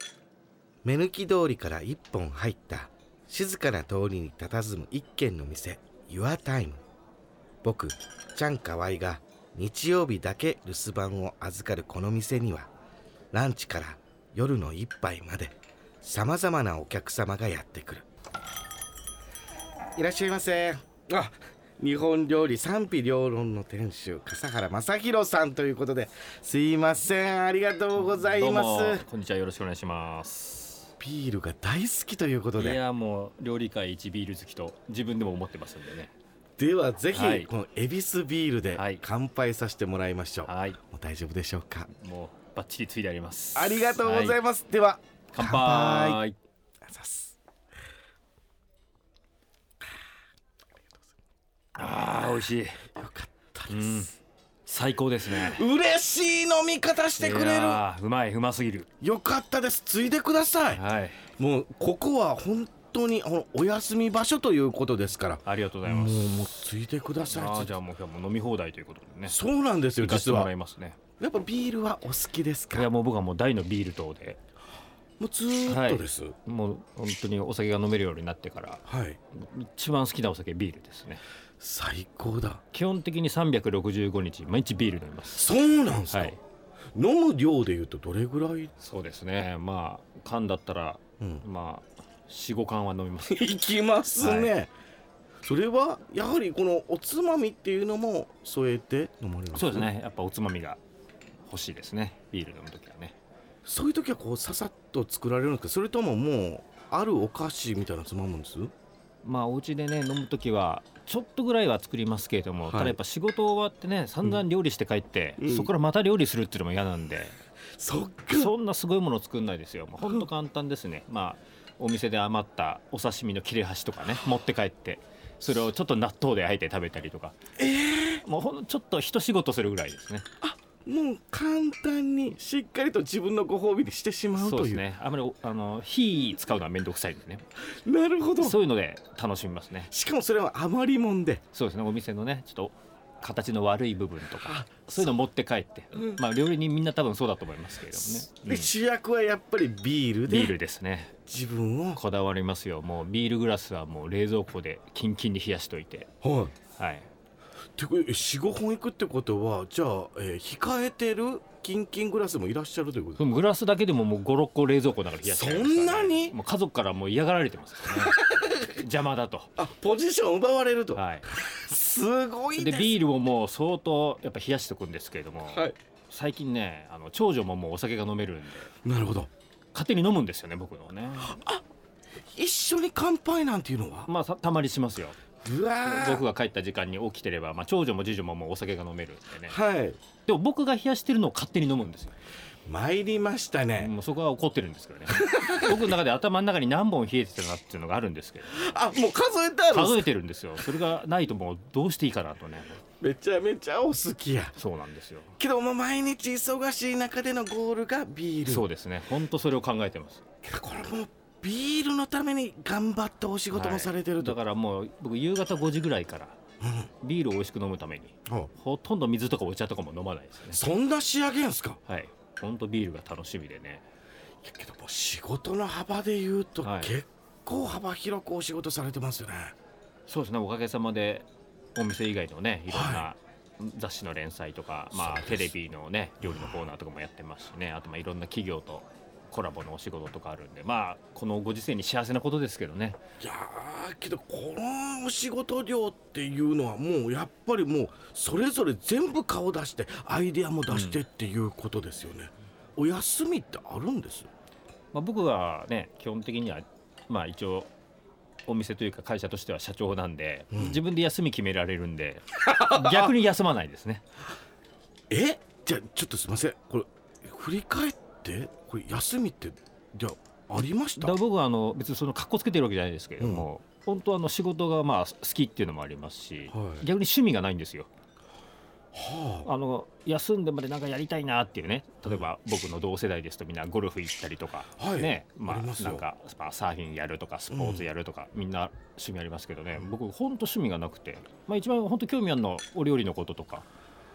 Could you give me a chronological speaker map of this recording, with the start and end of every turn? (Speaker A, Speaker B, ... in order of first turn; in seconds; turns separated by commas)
Speaker A: 0.8-6.8, Speaker A: 7.6-12.7, Speaker A: 13.3-18.1, Speaker A: 19.9-29.0, Speaker B: 28.0-30.9, Speaker A: 31.0-32.8, Speaker B: 32.6-36.1, Speaker A: 36.6-41.9, Speaker B: 37.1-37.5, Speaker B: 38.7-39.0, Speaker B: 40.5-40.8, Speaker B: 41.9-44.4, Speaker A: 43.5-46.2, Speaker B: 45.3-46.4, Speaker A: 46.8-47.3, Speaker B: 51.7-52.8, Speaker A: 52.9-54.1, Speaker B: 53.7-54.1, Speaker B: 54.6-55.6, Speaker A: 55.2-57.8, Speaker B: 57.2-58.9, Speaker A: 59.0-60.8, Speaker B: 60.7-61.2, Speaker A: 61.3-67.8, Speaker B: 65.4-66.5, Speaker B: 67.2-69.4, Speaker A: 69.2-70.5, Speaker B: 70.0-71.0, Speaker A: 71.2-72.9, Speaker B: 72.7-74.4, Speaker A: 75.2-76.3, Speaker B: 75.6-81.2, Speaker A: 78.9-79.2, Speaker A: 81.6-82.6, Speaker B: 82.7-85.5, Speaker A: 85.3-86.4, Speaker B: 86.1-86.4, Speaker A: 86.9-88.7, Speaker B: 88.8-93.5, Speaker A: 91.2-91.4, Speaker A: 93.2-94.7, Speaker B: 94.2-94.5, Speaker A: 95.4-99.9, Speaker B: 99.5-100.8, Speaker B: 101.4-103.1, Speaker A: 103.6-108.7, Speaker B: 109.2-117.3, Speaker A: 112.7-113.0, Speaker A: 115.4-115.7, Speaker A: 117.8-118.5, Speaker B: 118.3-127.3, Speaker A: 127.6-128.2, Speaker B: 128.2-130.2, Speaker A: 130.4-134.8, Speaker B: 134.3-137.4, Speaker A: 137.8-138.6, Speaker B: 138.4-139.9, Speaker A: 139.9-141.4, Speaker B: 141.5-148.7, Speaker A: 144.3-145.2, Speaker A: 147.9-150.6, Speaker B: 150.3-151.2, Speaker A: 151.3-152.0, Speaker B: 151.9-156.1, Speaker A: 156.2-156.5, Speaker B: 156.7-157.1, Speaker A: 157.8-163.2, Speaker B: 163.2-168.2, Speaker A: 165.2-166.4, Speaker A: 167.8-168.8, Speaker B: 168.7-169.5, Speaker A: 169.6-173.0, Speaker B: 170.9-171.3, Speaker B: 172.5-178.7, Speaker A: 175.5-175.8, Speaker A: 178.8-179.3, Speaker B: 179.7-181.4, Speaker A: 181.2-181.6, Speaker A: 182.3-184.1, Speaker B: 184.1-185.2, Speaker A: 185.4-186.3, Speaker B: 185.8-189.6, Speaker A: 189.5-190.0, Speaker B: 190.2-192.1, Speaker A: 192.7-193.9, Speaker B: 193.8-198.6, Speaker A: 195.1-195.9, Speaker A: 198.5-200.1, Speaker B: 199.7-202.8, Speaker A: 203.0-204.5, Speaker B: 204.6-205.4, Speaker A: 205.4-208.7, Speaker B: 208.4-210.2, Speaker A: 210.4-214.4, Speaker B: 213.5-216.4, Speaker A: 216.6-216.9, Speaker B: 217.0-220.6, Speaker A: 220.5-221.8, Speaker B: 221.9-223.8, Speaker A: 224.4-229.5, Speaker B: 226.6-227.0, Speaker B: 230.1-243.0, Speaker A: 232.7-233.1, Speaker A: 234.9-235.5, Speaker A: 236.2-236.7, Speaker A: 243.2-254.3, Speaker B: 250.7-251.0, Speaker B: 254.9-257.7, Speaker B: 258.4-264.0, Speaker A: 260.5-260.8, Speaker A: 262.4-263.1, Speaker A: 265.1-271.2, Speaker B: 271.0-277.9, Speaker A: 273.2-273.4, Speaker A: 276.5-276.8, Speaker A: 278.9-279.5, Speaker B: 279.4-293.7, Speaker A: 284.8-286.1, Speaker A: 287.5-287.9